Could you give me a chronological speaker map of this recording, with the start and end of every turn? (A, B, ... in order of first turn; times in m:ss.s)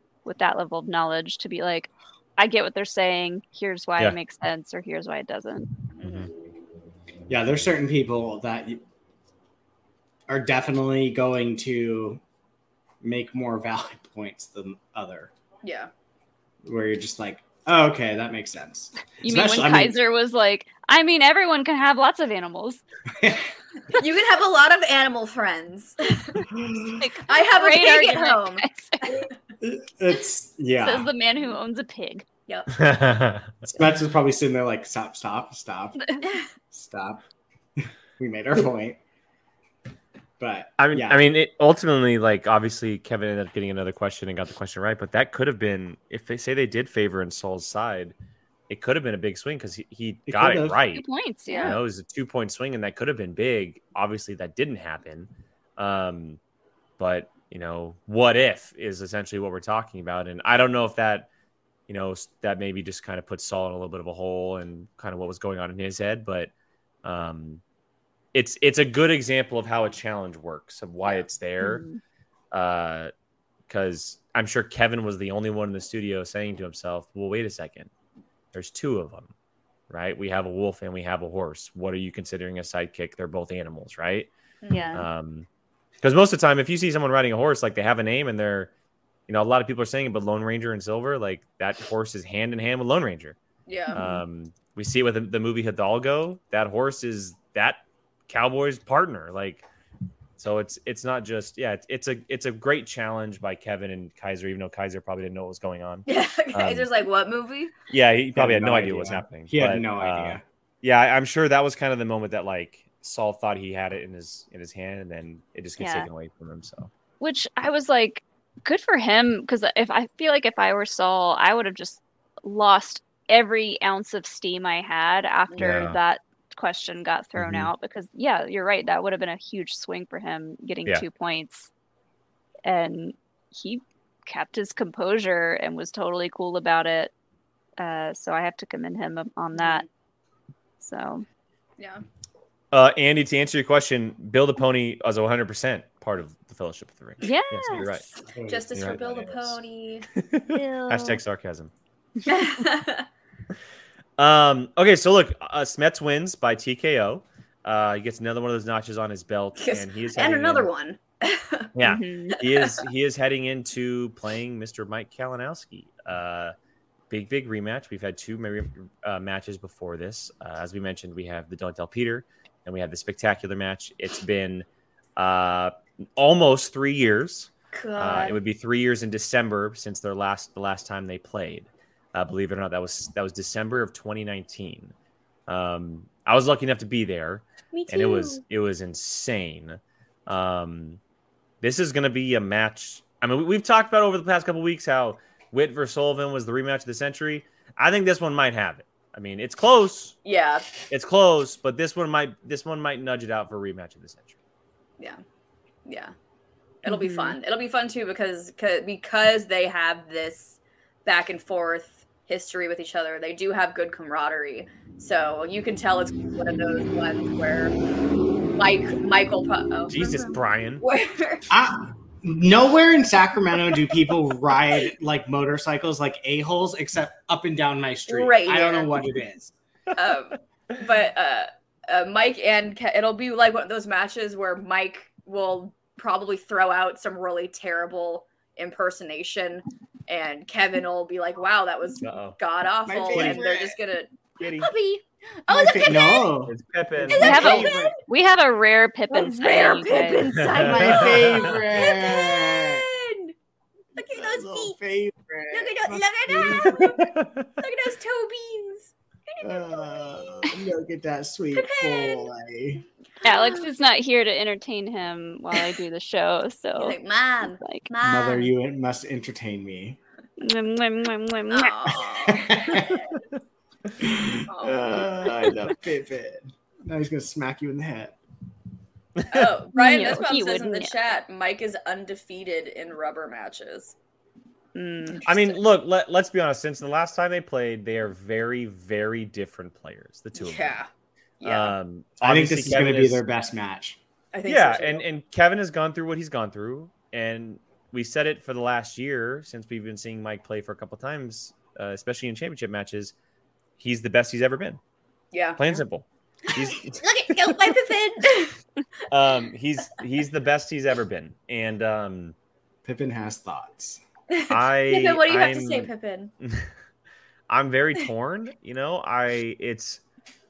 0:00.2-0:05.7 A
0:06.0-0:06.3 B
0:06.0-0:06.3 C
0:07.3-0:08.8 D
0:10.3-0:12.2 D
0:13.0-0:15.3 D
0:15.6-0:15.9 B
0:16.6-0:20.0 D
0:19.2-0:22.8 A
0:23.2-0:23.5 D
0:24.0-0:26.5 B
0:27.0-0:29.2 A
0:27.3-0:29.3 B
0:29.6-0:31.1 D
0:30.8-0:32.2 A
0:32.5-0:32.8 B
0:32.7-0:33.6 C
0:33.6-0:36.0 D
0:36.6-0:37.2 D
0:37.8-0:39.0 D
0:40.4-0:41.2 D
0:40.8-0:48.2 C
0:48.7-0:51.1 C
0:50.3-0:50.8 D
0:50.9-0:51.8 A
0:51.5-0:51.8 B
0:51.6-0:56.4 C
0:57.0-1:01.3 C
1:01.9-1:06.5 C
1:07.0-1:07.6 C
1:08.3-1:11.8 C
1:11.6-1:12.0 A
1:12.5-1:13.1 C
1:13.7-1:17.9 C
1:18.5-1:19.3 C
1:19.9-1:24.3 C
1:24.6-1:25.0 B
1:24.7-1:25.1 A
1:24.9-1:25.5 C
1:26.0-1:28.7 C
1:29.3-1:33.4 C
1:33.7-1:34.0 B
1:33.9-1:34.2 A
1:33.9-1:39.6 C
1:40.4-1:47.0 C
1:46.1-1:47.7 B
1:47.9-1:56.9 C
1:48.3-1:50.4 D
1:55.8-1:56.1 A
1:57.2-2:11.7 A
2:05.5-2:05.8 B
2:05.6-2:06.0 C
2:07.4-2:07.7 C
2:12.7-2:17.1 A
2:17.8-2:19.8 A
2:19.6-2:19.9 B
2:20.8-2:21.2 A
2:22.7-2:28.1 C
2:27.2-2:28.2 A
2:28.3-2:29.6 D
2:28.5-2:30.1 B
2:28.7-2:29.0 C
2:30.2-2:31.7 C
2:30.5-2:31.2 A
2:32.3-2:33.1 B
2:34.2-2:40.7 C
2:39.6-2:41.7 B
2:41.8-2:46.5 C
2:41.8-2:42.4 A
2:42.4-2:42.7 B
2:47.1-2:54.6 C
2:55.2-3:04.9 C
2:57.7-2:58.4 B
3:05.5-3:11.0 C
3:07.7-3:08.4 B
3:11.6-3:20.2 C
3:20.2-3:20.7 B
3:20.9-3:24.4 C
3:25.9-3:26.1 B
3:26.8-3:37.8 B
3:26.9-3:27.4 A
3:38.6-3:41.5 B
3:39.9-3:40.8 C
3:41.5-3:49.5 D
3:48.1-3:49.0 B
3:49.9-4:06.3 B
4:02.0-4:02.4 C
4:02.8-4:03.8 D
4:03.1-4:03.4 C
4:04.4-4:04.7 C
4:05.5-4:08.0 D
4:06.5-4:07.4 C
4:07.1-4:07.9 B
4:07.2-4:10.3 A
4:09.1-4:13.3 B
4:10.4-4:11.6 C
4:10.6-4:12.9 D
4:14.0-4:14.8 B
4:14.2-4:16.9 D
4:15.5-4:20.2 B
4:16.6-4:17.5 C
4:19.4-4:22.8 D
4:21.6-4:22.3 B
4:23.2-4:27.0 A
4:23.3-4:23.6 B
4:26.8-4:28.5 B
4:27.6-4:27.9 A
4:28.0-4:30.0 D
4:30.4-4:32.0 A
4:31.5-4:33.2 B
4:32.2-4:33.0 D
4:34.0-4:38.2 D
4:34.5-4:34.9 B
4:39.2-4:39.6 C
4:39.3-4:43.9 B
4:39.7-4:41.0 A
4:44.8-4:45.3 A
4:45.2-4:50.8 C
4:50.4-4:50.9 B
4:51.4-4:51.7 B
4:51.4-4:53.2 C
4:52.2-4:54.0 D
4:54.3-4:55.0 B
4:54.4-5:03.1 C
5:03.8-5:04.8 C
5:05.3-5:05.6 B
5:05.6-5:07.8 C
5:06.6-5:08.6 B
5:09.1-5:12.4 C
5:12.8-5:14.0 D
5:14.3-5:16.3 B
5:14.5-5:15.9 C
5:16.4-5:16.7 C
5:17.5-5:20.0 C